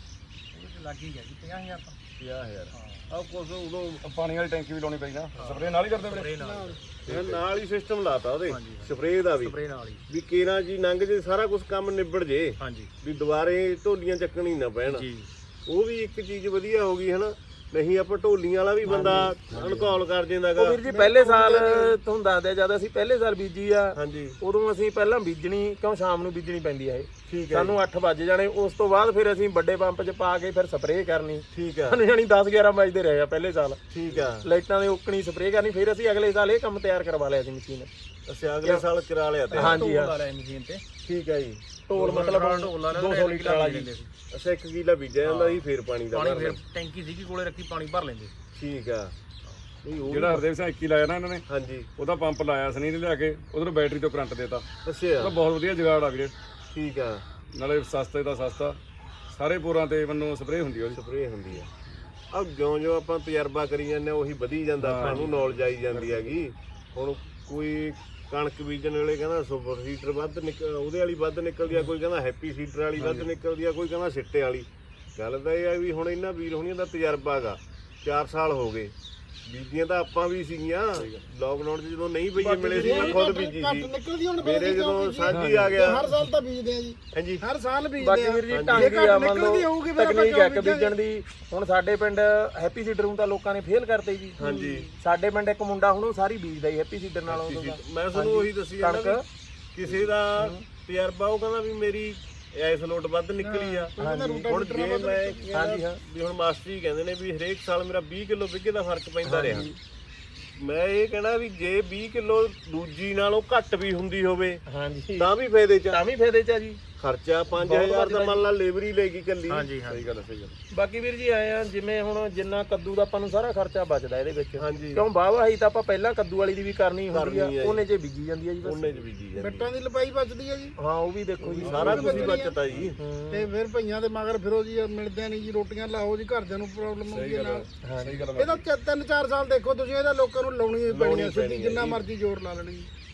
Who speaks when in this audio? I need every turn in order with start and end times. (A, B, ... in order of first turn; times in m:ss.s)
0:00.5-0:02.0 A
0:02.2-0:04.0 B
0:02.7-0:03.2 A
0:04.1-0:06.3 C
0:05.3-0:06.9 A
0:06.4-0:06.8 D
0:07.1-0:07.4 C
0:07.1-0:09.6 B
0:08.5-0:10.0 A
0:10.1-0:15.1 B
0:12.6-0:12.9 A
0:14.9-0:15.3 A
0:15.7-0:20.8 B
0:18.8-0:19.8 E
0:20.6-0:33.8 E
0:20.8-0:22.0 D
0:24.0-0:24.4 B
0:27.3-0:27.8 B
0:31.5-0:32.0 B
0:33.9-0:34.5 B
0:34.4-0:37.9 E
0:38.3-0:39.8 B
0:39.5-0:40.8 A
0:39.6-0:40.1 E
0:41.0-0:41.6 B
0:41.9-0:43.9 E
0:41.9-0:44.1 A
0:42.4-0:42.8 B
0:44.3-0:46.6 B
0:45.2-0:48.3 A
0:48.6-0:49.1 B
0:49.8-0:50.5 B
0:50.0-0:51.4 C
0:51.5-0:51.9 B
0:52.0-0:54.6 C
0:54.8-0:55.4 B
0:55.2-0:56.3 C
0:56.7-0:57.2 B
0:57.5-0:58.8 C
0:59.3-1:01.0 C
1:00.9-1:01.7 B
1:02.3-1:18.9 B
1:04.8-1:06.4 C
1:13.0-1:13.3 C
1:19.5-1:26.1 B
1:22.4-1:23.2 E
1:22.8-1:31.0 D
1:25.3-1:26.1 C
1:27.1-1:27.4 B
1:28.0-1:34.4 E
1:28.5-1:28.9 B
1:34.4-1:34.9 B
1:34.4-1:34.9 D
1:35.0-1:39.2 E
1:37.3-1:39.2 B
1:39.7-1:49.7 B
1:40.4-1:40.6 E
1:43.4-1:45.4 D
1:44.0-1:44.5 E
1:45.5-1:46.0 E
1:49.2-1:49.8 E
1:50.6-1:54.6 B
1:54.7-1:55.3 E
1:55.2-1:56.0 B
1:55.9-1:56.8 E
1:57.0-1:59.7 B
1:57.6-1:58.4 E
1:59.5-2:00.1 A
1:59.9-2:00.5 C
2:00.7-2:09.0 E
2:04.6-2:05.1 B
2:07.1-2:07.8 B
2:08.6-2:09.7 B
2:09.4-2:10.8 D
2:10.8-2:12.2 E
2:11.4-2:13.0 B
2:11.6-2:12.9 C
2:11.6-2:12.6 D
2:13.0-2:13.5 E
2:13.3-2:17.7 D
2:17.1-2:18.7 C
2:17.8-2:18.2 E
2:18.4-2:22.9 D
2:20.9-2:22.0 B